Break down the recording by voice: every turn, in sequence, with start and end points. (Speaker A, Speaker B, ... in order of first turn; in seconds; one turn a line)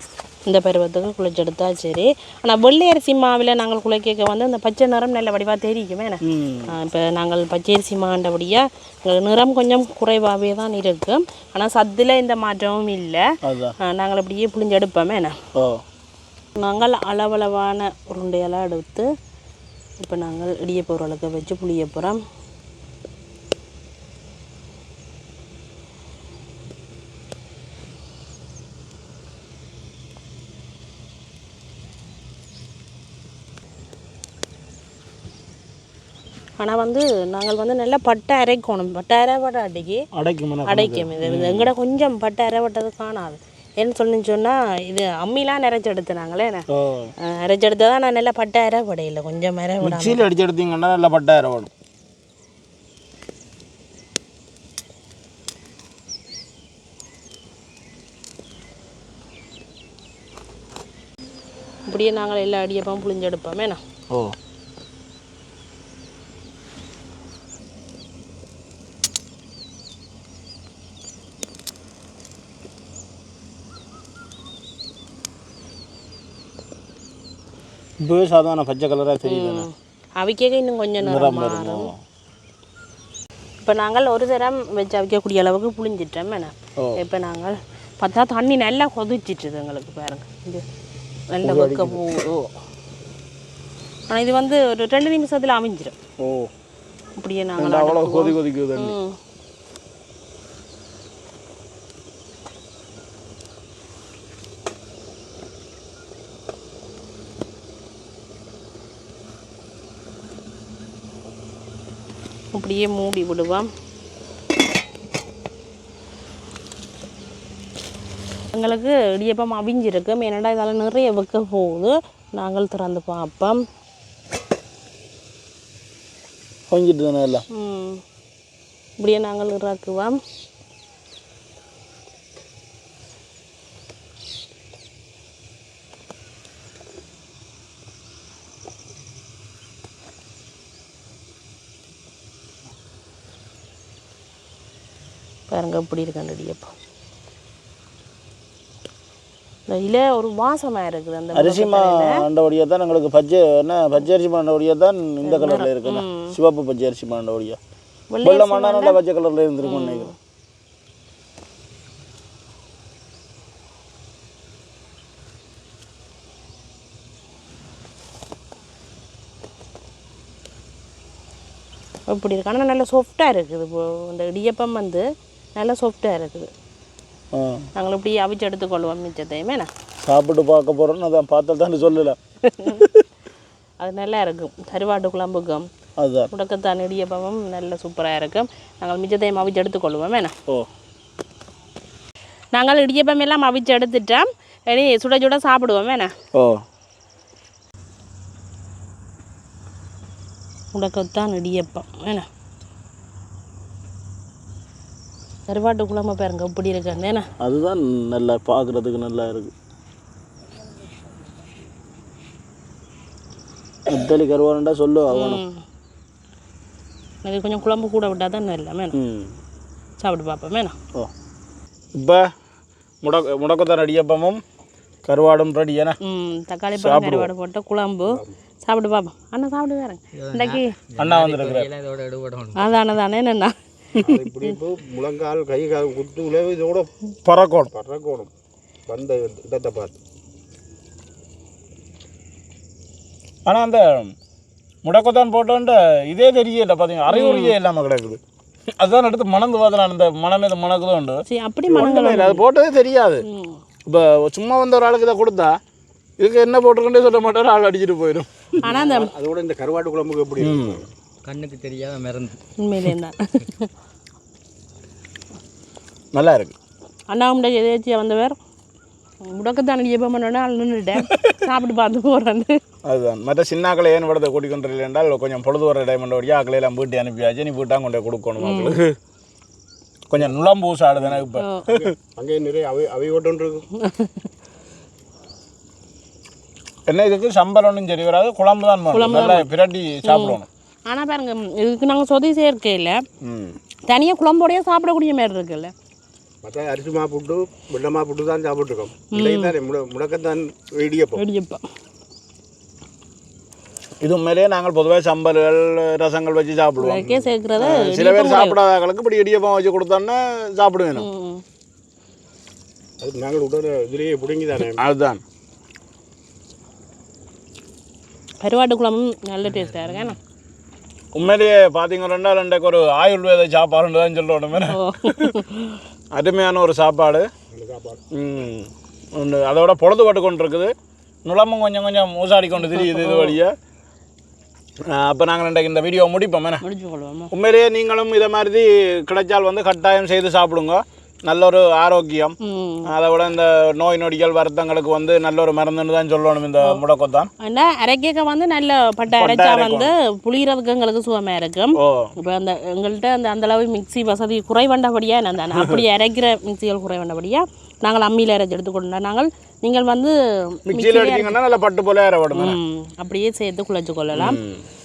Speaker A: 0.5-13.2
Speaker B: 6.3-6.7
Speaker B: 13.4-13.7
Speaker A: 13.8-15.3
Speaker B: 15.5-15.8
Speaker A: 16.6-19.1
Speaker A: 20.0-22.2
Speaker A: 36.6-40.0
Speaker B: 40.1-41.7
Speaker A: 40.7-46.6
Speaker B: 46.7-47.1
Speaker A: 47.2-50.2
Speaker B: 49.8-51.7
Speaker A: 61.9-63.8
Speaker B: 78.0-79.7
Speaker A: 79.2-81.9
Speaker B: 81.0-82.0
Speaker A: 83.6-90.6
Speaker A: 91.3-92.5
Speaker B: 91.4-92.0
Speaker A: 94.1-95.9
Speaker B: 96.2-96.5
Speaker A: 97.2-99.1
Speaker B: 97.6-98.9
Speaker A: 112.5-113.7
Speaker A: 118.5-123.6
Speaker B: 126.7-127.4
Speaker A: 127.5-128.0
Speaker A: 129.0-130.2
Speaker A: 145.5-146.7
Speaker A: 149.7-152.2
Speaker B: 151.3-157.6
Speaker A: 155.2-156.3
Speaker A: 158.1-159.0
Speaker B: 158.2-160.1
Speaker A: 159.6-160.1
Speaker A: 172.1-176.5
Speaker B: 177.3-177.7
Speaker A: 177.8-179.7
Speaker B: 180.0-183.0
Speaker A: 182.5-182.8
Speaker A: 183.8-185.6
Speaker B: 186.0-186.3
Speaker A: 186.3-190.3
Speaker A: 192.5-196.1
Speaker B: 196.3-196.6
Speaker A: 200.7-202.2
Speaker A: 205.5-207.2
Speaker B: 207.4-209.5
Speaker B: 213.9-215.4
Speaker A: 215.1-215.6
Speaker A: 217.2-218.9
Speaker B: 218.9-219.3
Speaker A: 220.0-220.7
Speaker B: 221.9-222.2
Speaker B: 223.0-224.4
Speaker B: 225.0-226.0
Speaker A: 226.0-230.7
Speaker B: 226.7-227.3
Speaker C: 230.2-232.7
Speaker B: 231.0-231.7
Speaker A: 232.6-233.5
Speaker D: 234.0-236.9
Speaker B: 237.2-237.7
Speaker D: 237.7-238.3
Speaker D: 238.9-240.0
Speaker B: 243.4-244.1
Speaker B: 244.8-248.2
Speaker A: 247.1-247.5
Speaker B: 248.8-253.2
Speaker A: 251.3-252.4
Speaker A: 253.2-253.6
Speaker B: 253.8-255.5
Speaker B: 256.2-258.5
Speaker A: 258.6-259.1
Speaker D: 258.6-260.9
Speaker B: 260.4-260.8
Speaker C: 261.2-262.4
Speaker A: 262.6-263.7
Speaker B: 266.1-266.5
Speaker A: 267.1-268.4
Speaker A: 269.3-272.6
Speaker B: 272.8-278.9
Speaker A: 278.4-278.8
Speaker B: 280.1-281.9
Speaker D: 281.0-283.6
Speaker A: 281.4-281.7
Speaker A: 283.8-284.3
Speaker B: 286.9-290.5
Speaker A: 288.9-289.5
Speaker A: 290.1-293.0
Speaker B: 293.2-293.6
Speaker A: 293.9-295.7
Speaker D: 296.4-301.2
Speaker A: 299.1-299.5
Speaker A: 301.2-301.6
Speaker B: 304.0-307.1
Speaker A: 306.8-308.6
Speaker B: 307.6-311.1
Speaker A: 310.9-311.4
Speaker D: 313.0-314.8
Speaker B: 314.8-315.2
Speaker A: 318.4-320.2
Speaker C: 319.5-320.1
Speaker B: 321.1-325.3
Speaker A: 324.6-325.8
Speaker B: 326.1-327.3
Speaker D: 327.5-328.0
Speaker B: 328.1-330.7
Speaker B: 331.2-333.5
Speaker A: 332.6-333.4
Speaker B: 334.9-336.6
Speaker A: 336.6-337.3
Speaker B: 337.3-342.4
Speaker A: 342.4-342.9
Speaker B: 342.9-347.3
Speaker A: 347.4-361.4
Speaker B: 349.1-349.9
Speaker B: 351.8-352.1
Speaker B: 360.7-362.6
Speaker A: 362.3-364.4
Speaker B: 364.1-364.6